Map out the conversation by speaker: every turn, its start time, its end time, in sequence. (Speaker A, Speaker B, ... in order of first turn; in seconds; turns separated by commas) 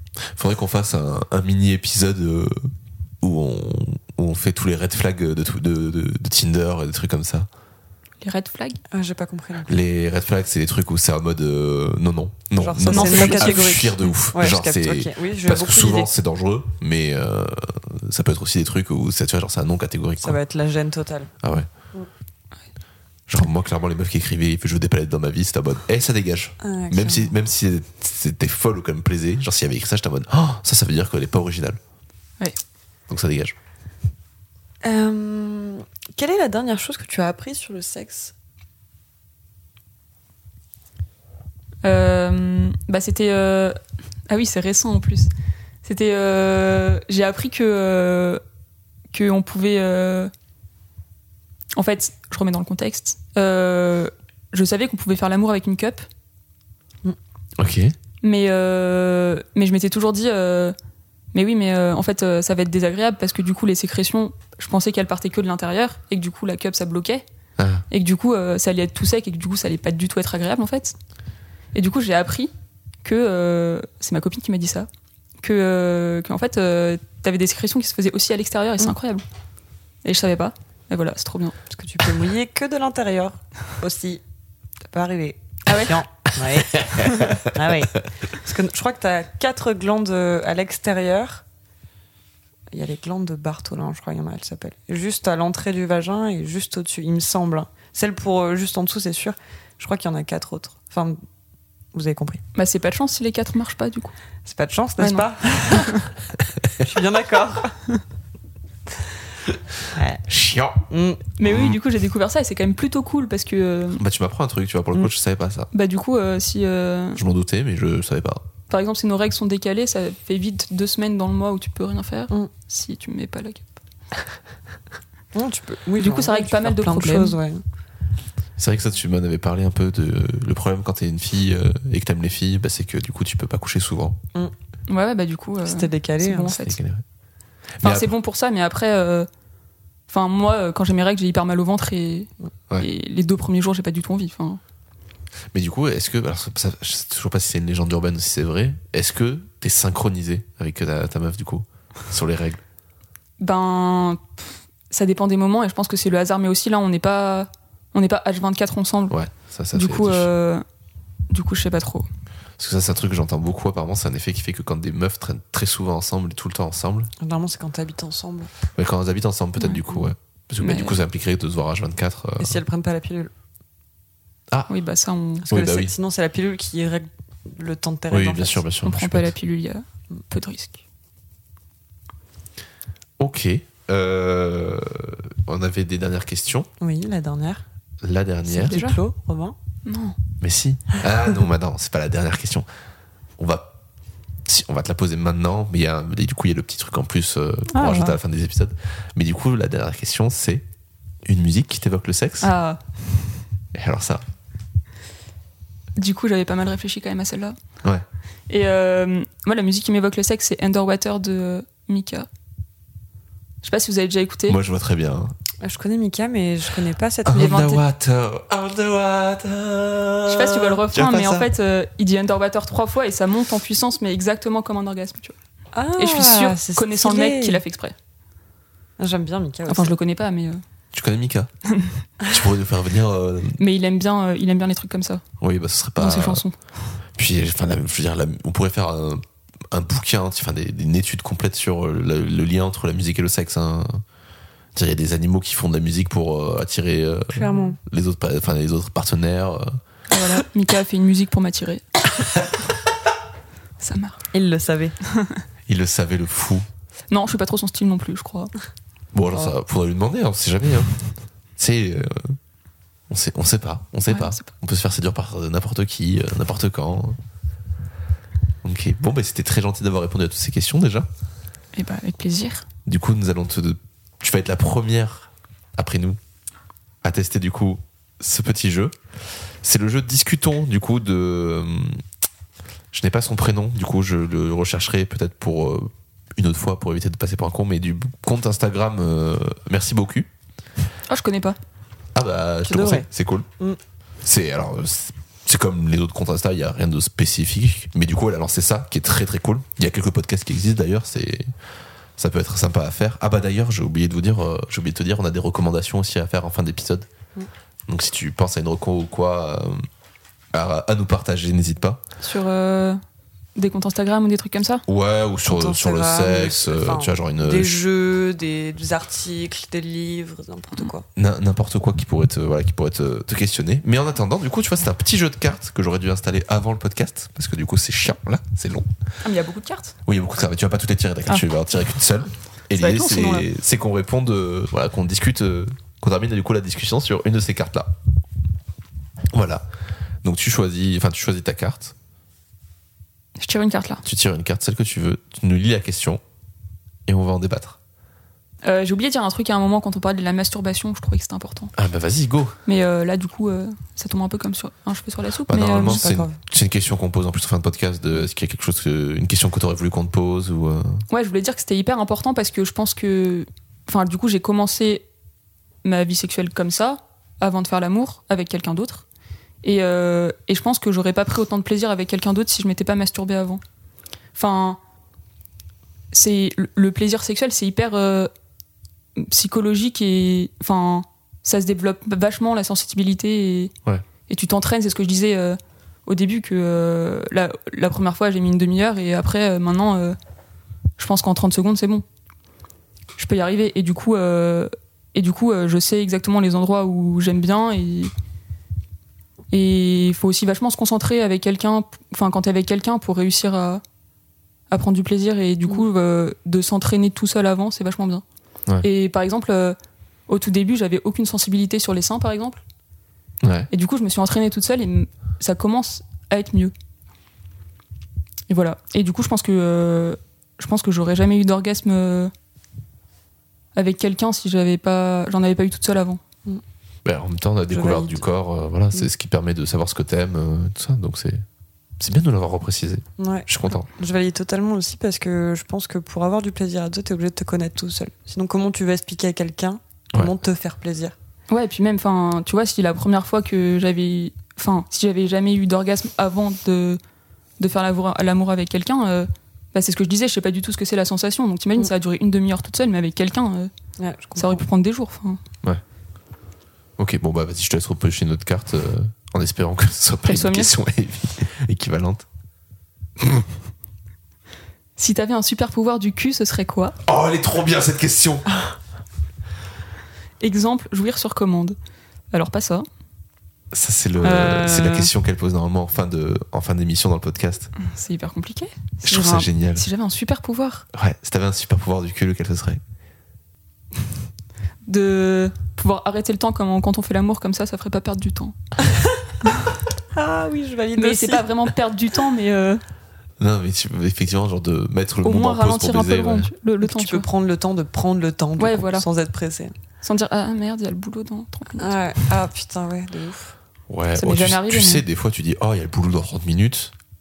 Speaker A: 0.3-7.5, Speaker B: 8.2-8.8, Speaker C: 8.9-9.8, Speaker A: 9.7-20.4, Speaker C: 12.6-16.1, Speaker B: 12.9-13.9, Speaker C: 20.2-21.3, Speaker A: 21.4-21.7, Speaker A: 23.3-31.8, Speaker C: 26.6-27.3, Speaker A: 33.1-33.5, Speaker C: 34.8-38.3, Speaker B: 41.8-45.3, Speaker B: 45.8-48.4, Speaker B: 49.1-50.3, Speaker B: 51.7-56.1, Speaker A: 57.6-57.9, Speaker B: 58.2-60.7, Speaker B: 61.3-67.2, Speaker A: 67.6-67.8, Speaker B: 67.9-71.0, Speaker B: 71.7-72.5, Speaker B: 73.0-74.9, Speaker B: 75.4-79.2, Speaker B: 80.0-81.5, Speaker C: 81.7-84.2, Speaker C: 84.8-91.4, Speaker B: 85.7-85.9, Speaker A: 86.7-87.4, Speaker C: 92.7-101.2, Speaker C: 101.9-102.4, Speaker B: 102.5-104.1, Speaker C: 104.5-106.0, Speaker B: 105.0-106.1, Speaker C: 106.8-107.8, Speaker C: 109.9-110.2, Speaker A: 110.3-110.8, Speaker C: 110.9-111.2, Speaker B: 111.4-114.0, Speaker A: 111.4-111.8, Speaker A: 114.0-115.7, Speaker B: 115.7-117.2, Speaker A: 117.2-118.4, Speaker B: 118.7-123.7, Speaker C: 125.3-127.6, Speaker B: 126.0-127.4, Speaker A: 128.6-134.2, Speaker B: 134.9-136.8, Speaker C: 135.6-136.6, Speaker A: 136.6-137.0, Speaker A: 137.8-138.1, Speaker B: 137.8-139.3, Speaker B: 140.1-144.6, Speaker A: 145.5-152.6, Speaker B: 153.4-154.2, Speaker B: 154.9-159.1, Speaker A: 159.1-160.3, Speaker B: 159.7-160.6, Speaker B: 161.3-162.1, Speaker A: 162.6-167.1, Speaker C: 167.2-168.5, Speaker A: 168.7-172.6, Speaker B: 170.6-171.0, Speaker C: 172.4-173.3, Speaker B: 174.7-175.5, Speaker C: 175.4-178.6, Speaker A: 175.5-175.9, Speaker A: 178.1-179.3, Speaker B: 178.8-180.8, Speaker A: 183.2-186.7, Speaker C: 186.8-187.6, Speaker A: 188.0-188.8, Speaker C: 188.5-189.6, Speaker B: 188.6-189.0, Speaker B: 189.8-190.2, Speaker A: 190.4-192.7, Speaker A: 193.4-193.7, Speaker A: 194.4-200.6, Speaker B: 197.7-198.1, Speaker A: 201.2-202.5, Speaker B: 202.4-202.8, Speaker A: 203.7-204.2, Speaker B: 206.0-207.6, Speaker B: 208.5-212.3, Speaker B: 213.6-214.6, Speaker A: 214.5-215.3, Speaker C: 215.6-217.7, Speaker A: 217.2-221.5, Speaker B: 217.4-217.8, Speaker B: 220.3-225.3, Speaker C: 225.7-227.6, Speaker B: 226.0-227.9, Speaker C: 229.0-229.9, Speaker B: 229.7-230.6, Speaker A: 230.9-231.5, Speaker A: 232.2-233.6, Speaker B: 233.6-235.2, Speaker A: 235.4-236.4, Speaker B: 236.0-236.6, Speaker A: 237.2-244.0, Speaker A: 244.7-249.8, Speaker C: 247.3-247.8, Speaker B: 250.1-251.8, Speaker B: 253.8-254.3, Speaker C: 254.3-254.9, Speaker B: 255.1-255.4, Speaker A: 255.7-256.6, Speaker B: 257.1-258.5, Speaker A: 259.1-261.0, Speaker A: 261.6-262.4, Speaker A: 263.1-267.2, Speaker B: 264.1-264.4, Speaker A: 268.6-271.1, Speaker B: 271.7-272.6, Speaker A: 272.9-276.2, Speaker A: 277.0-278.9, Speaker A: 279.6-282.0, Speaker A: 282.9-290.3, Speaker B: 291.1-291.6, Speaker A: 292.1-293.5, Speaker C: 292.6-293.1, Speaker A: 294.2-301.5, Speaker A: 302.2-307.1, Speaker A: 307.9-309.9, Speaker A: 310.5-312.0, Speaker B: 312.2-313.0, Speaker B: 313.6-314.8, Speaker A: 314.9-317.8, Speaker C: 315.5-321.1, Speaker A: 321.1-328.9, Speaker B: 329.2-329.9, Speaker A: 330.1-337.9, Speaker B: 332.7-333.4, Speaker A: 339.3-339.6, Speaker A: 340.2-341.9, Speaker B: 343.4-344.0, Speaker A: 344.0-346.2, Speaker A: 347.1-347.8, Speaker B: 348.6-351.7, Speaker A: 351.8-352.6, Speaker B: 352.6-356.1, Speaker A: 355.5-361.0, Speaker C: 355.6-356.4, Speaker B: 361.1-365.0, Speaker B: 365.8-369.0, Speaker B: 369.6-373.6, Speaker B: 374.3-374.8, Speaker B: 376.1-378.3, Speaker B: 379.1-383.7, Speaker B: 384.3-390.2, Speaker B: 391.0-392.0, Speaker B: 393.2-398.1, Speaker B: 399.5-403.8, Speaker B: 404.7-408.2, Speaker B: 408.8-409.8, Speaker B: 410.3-412.6, Speaker A: 413.4-413.7, Speaker B: 413.7-416.7, Speaker B: 418.5-422.3, Speaker B: 423.7-426.2, Speaker A: 427.0-431.4, Speaker C: 427.7-428.2, Speaker A: 432.0-433.9, Speaker C: 433.2-441.1, Speaker B: 441.5-447.0, Speaker B: 447.6-453.7, Speaker C: 454.0-454.6, Speaker B: 454.4-455.4, Speaker A: 457.0-462.2, Speaker B: 460.2-460.7, Speaker B: 465.0-466.9, Speaker A: 467.1-468.5, Speaker B: 470.4-471.8, Speaker B: 472.3-472.9, Speaker A: 473.7-477.7, Speaker B: 474.2-475.1, Speaker B: 477.8-480.9, Speaker A: 479.0-479.9, Speaker A: 480.9-482.8, Speaker B: 484.9-488.6, Speaker C: 490.1-491.5, Speaker B: 490.9-492.8, Speaker A: 493.4-496.5, Speaker B: 495.2-497.3, Speaker C: 496.8-499.7, Speaker B: 498.6-499.1, Speaker B: 500.0-502.0, Speaker C: 501.8-503.5, Speaker A: 503.9-506.9, Speaker B: 504.1-505.0